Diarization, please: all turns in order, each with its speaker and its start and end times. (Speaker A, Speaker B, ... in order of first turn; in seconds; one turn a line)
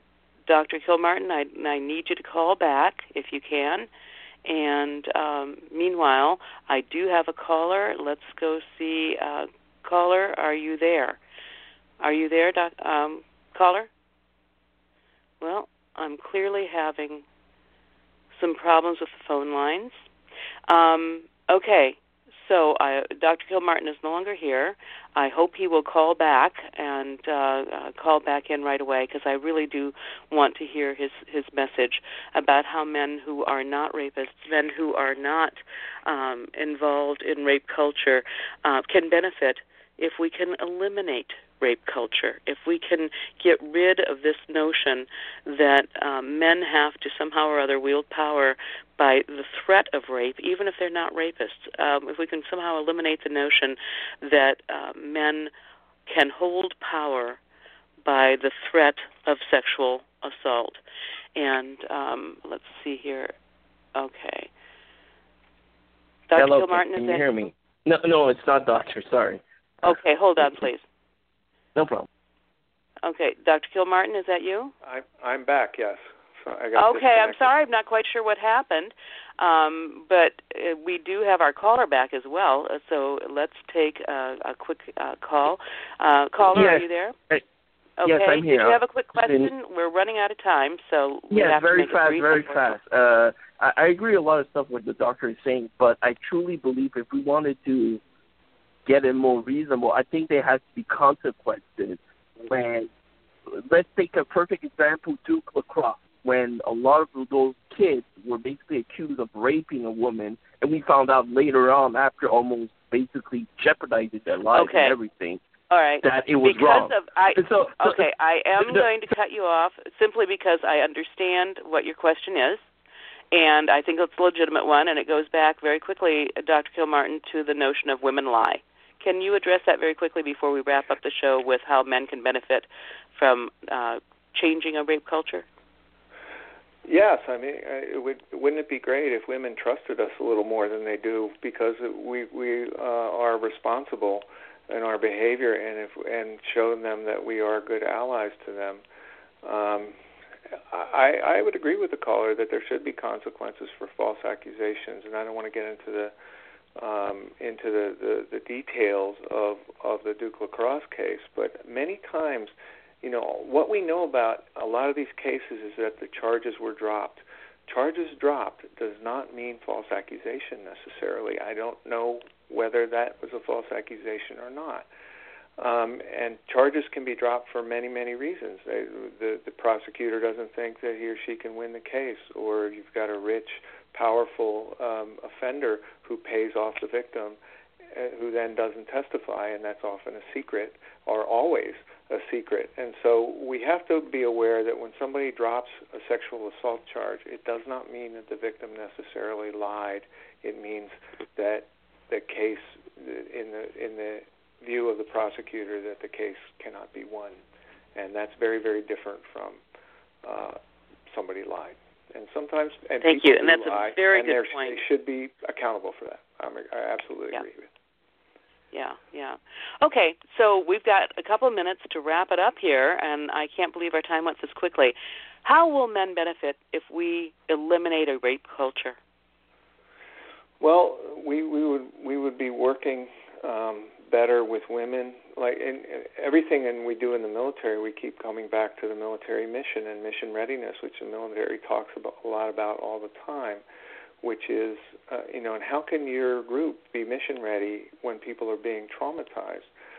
Speaker A: 0.5-3.9
Speaker A: 4.4-11.2
Speaker A: 12.0-13.9
Speaker A: 15.4-17.2
Speaker A: 18.3-20.0
Speaker A: 20.7-55.5
Speaker A: 56.1-57.4
Speaker A: 58.0-60.8
Speaker A: 61.4-63.3
Speaker A: 63.9-64.5
Speaker A: 66.3-67.2
Speaker B: 66.3-69.9
Speaker A: 69.8-70.8
Speaker B: 71.7-72.1
Speaker A: 73.0-74.7
Speaker C: 74.8-77.5
Speaker A: 76.8-87.2
Speaker B: 86.5-87.4
Speaker A: 88.0-92.8
Speaker B: 88.0-89.5
Speaker B: 91.3-98.0
Speaker B: 98.8-102.9
Speaker B: 103.5-115.4
Speaker A: 114.5-115.0
Speaker A: 115.7-122.6
Speaker B: 116.0-118.0
Speaker B: 118.6-118.9
Speaker A: 123.3-135.4
Speaker C: 136.8-148.8
Speaker C: 149.4-149.9
Speaker C: 150.5-156.1
Speaker C: 156.8-174.9
Speaker C: 175.6-187.4
Speaker C: 187.9-207.4
Speaker C: 207.9-209.6
Speaker C: 210.2-217.7
Speaker A: 213.0-214.8
Speaker A: 218.7-229.0
Speaker C: 230.6-243.6
Speaker C: 244.2-249.7